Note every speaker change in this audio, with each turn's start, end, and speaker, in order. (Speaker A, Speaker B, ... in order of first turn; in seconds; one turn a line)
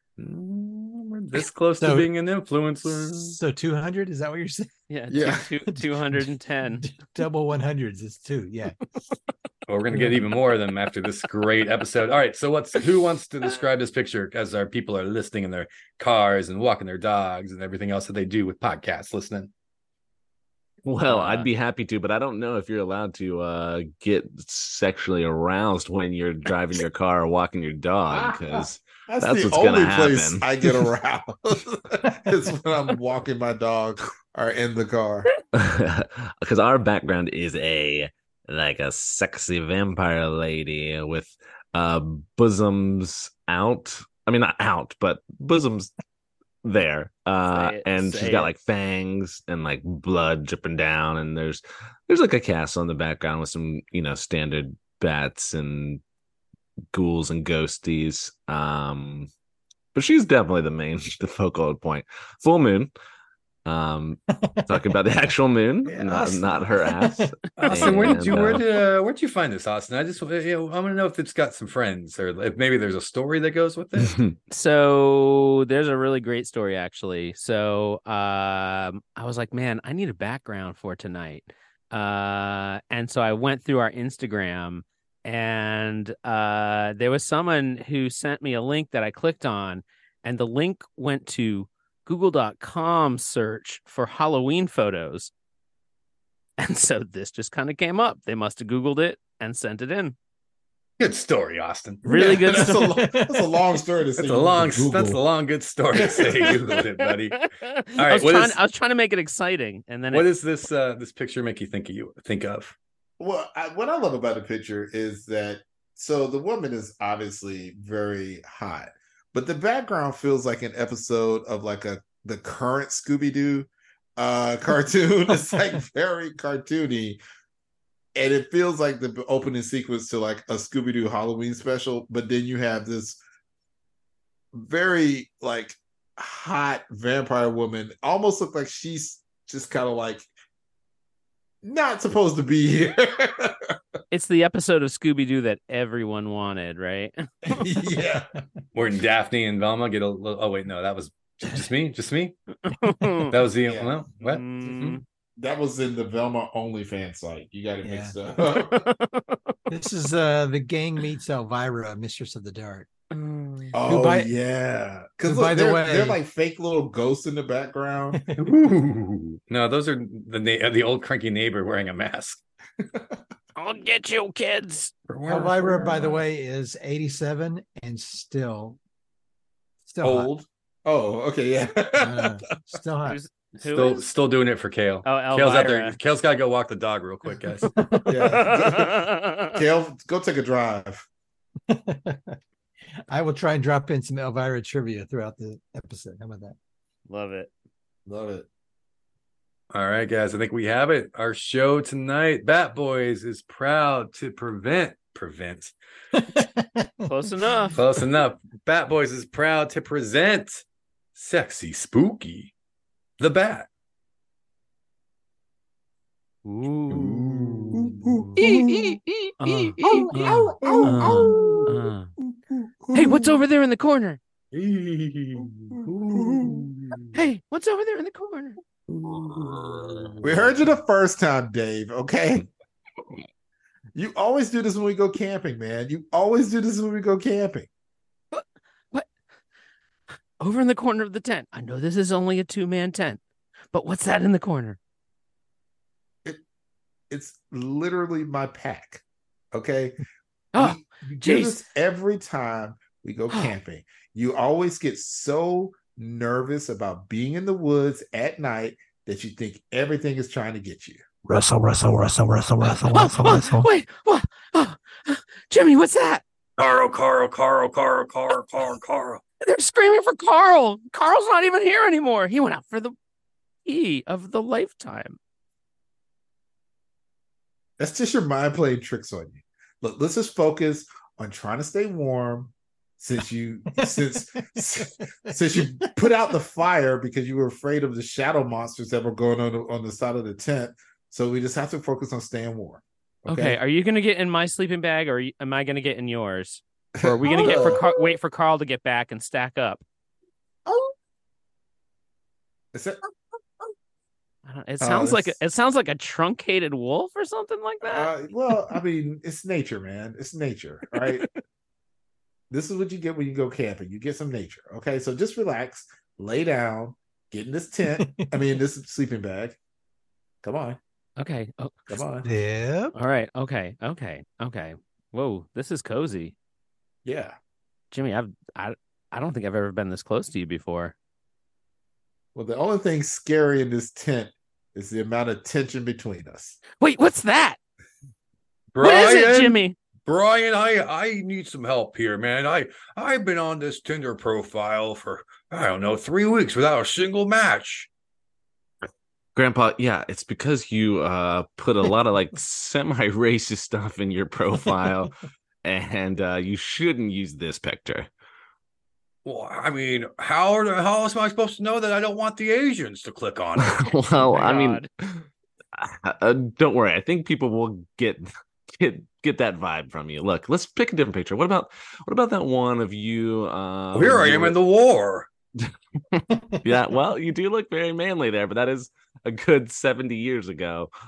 Speaker A: 0.2-3.4
Speaker B: 1.8-2.1
Speaker B: 2.9-4.7
Speaker C: 4.9-6.9
Speaker D: 5.1-5.5
Speaker B: 6.8-8.8
Speaker A: 9.7-19.5
Speaker B: 9.9-10.3
Speaker E: 20.9-30.5
Speaker C: 21.1-21.5
Speaker D: 28.1-35.3
Speaker E: 35.5-45.9
Speaker E: 46.6-56.0
Speaker C: 47.5-48.5
Speaker E: 56.9-59.3
Speaker E: 59.9-62.9
Speaker E: 63.6-68.7
Speaker B: 64.4-64.9
Speaker B: 65.8-68.4
Speaker A: 67.6-74.2
Speaker E: 74.0-74.3
Speaker C: 74.5-95.3
Speaker C: 96.6-100.2
Speaker A: 101.0-102.0
Speaker C: 102.0-103.0
Speaker B: 102.1-103.6
Speaker D: 102.1-105.2
Speaker A: 104.2-108.6
Speaker D: 105.9-106.8
Speaker C: 107.5-110.3
Speaker A: 110.1-112.8
Speaker D: 113.2-127.2
Speaker D: 128.2-133.2
Speaker D: 134.5-140.3
Speaker D: 141.6-143.8
Speaker C: 144.1-147.6
Speaker D: 147.4-148.3
Speaker A: 148.7-152.3
Speaker C: 152.7-153.3
Speaker B: 153.0-153.3
Speaker A: 153.3-155.0
Speaker D: 153.7-153.9
Speaker C: 154.2-155.0
Speaker D: 155.4-158.9
Speaker B: 157.8-158.2
Speaker C: 158.5-159.4
Speaker B: 159.7-162.9
Speaker C: 163.1-163.8
Speaker D: 163.7-168.2
Speaker B: 163.8-164.4
Speaker B: 165.2-166.2
Speaker B: 168.1-168.5
Speaker A: 168.4-172.4
Speaker D: 172.8-173.1
Speaker C: 173.6-174.9
Speaker A: 175.1-176.2
Speaker B: 175.3-178.8
Speaker B: 179.9-180.3
Speaker D: 180.0-182.3
Speaker B: 182.0-183.2
Speaker C: 183.1-184.1
Speaker A: 183.6-187.7
Speaker C: 185.0-186.0
Speaker B: 187.7-188.4
Speaker D: 188.1-191.1
Speaker C: 188.2-189.6
Speaker B: 191.7-192.4
Speaker B: 193.1-196.6
Speaker C: 197.1-197.5
Speaker D: 198.1-198.5
Speaker A: 199.7-205.7
Speaker B: 206.2-207.8
Speaker C: 207.1-207.8
Speaker A: 207.8-210.6
Speaker A: 211.2-212.5
Speaker A: 213.2-213.7
Speaker C: 216.4-217.1
Speaker A: 216.9-218.3
Speaker D: 216.9-218.8
Speaker E: 218.4-220.4
Speaker C: 219.4-222.1
Speaker D: 219.8-223.4
Speaker A: 220.8-221.7
Speaker C: 222.9-224.2
Speaker A: 224.5-227.2
Speaker D: 225.4-226.7
Speaker C: 227.1-228.6
Speaker A: 228.9-230.6
Speaker D: 230.2-232.5
Speaker D: 233.9-237.7
Speaker C: 238.3-239.1
Speaker C: 240.4-243.2
Speaker C: 243.7-244.8
Speaker D: 247.1-250.0
Speaker C: 250.5-251.6
Speaker D: 250.6-261.0
Speaker B: 261.2-263.7
Speaker C: 262.9-266.2
Speaker A: 266.6-269.2
Speaker C: 269.4-272.9
Speaker C: 273.7-275.2
Speaker D: 277.8-293.6
Speaker B: 283.8-285.8
Speaker C: 293.3-299.8
Speaker D: 297.0-297.8
Speaker D: 300.7-300.9
Speaker D: 302.7-303.0
Speaker C: 304.5-308.1
Speaker D: 304.8-305.4
Speaker D: 307.8-311.3
Speaker D: 312.5-319.6
Speaker B: 317.9-318.5
Speaker D: 320.4-320.8
Speaker C: 321.2-321.9
Speaker D: 321.9-322.3
Speaker B: 322.2-322.9
Speaker C: 322.9-326.4
Speaker D: 327.1-327.4
Speaker C: 327.9-330.9
Speaker D: 332.4-336.6
Speaker C: 336.8-337.6
Speaker A: 338.7-347.9
Speaker C: 338.8-339.8
Speaker E: 349.4-355.1
Speaker E: 355.6-358.1
Speaker A: 359.2-363.9
Speaker E: 363.6-374.6
Speaker C: 364.2-364.9
Speaker A: 373.9-375.3
Speaker E: 375.6-380.9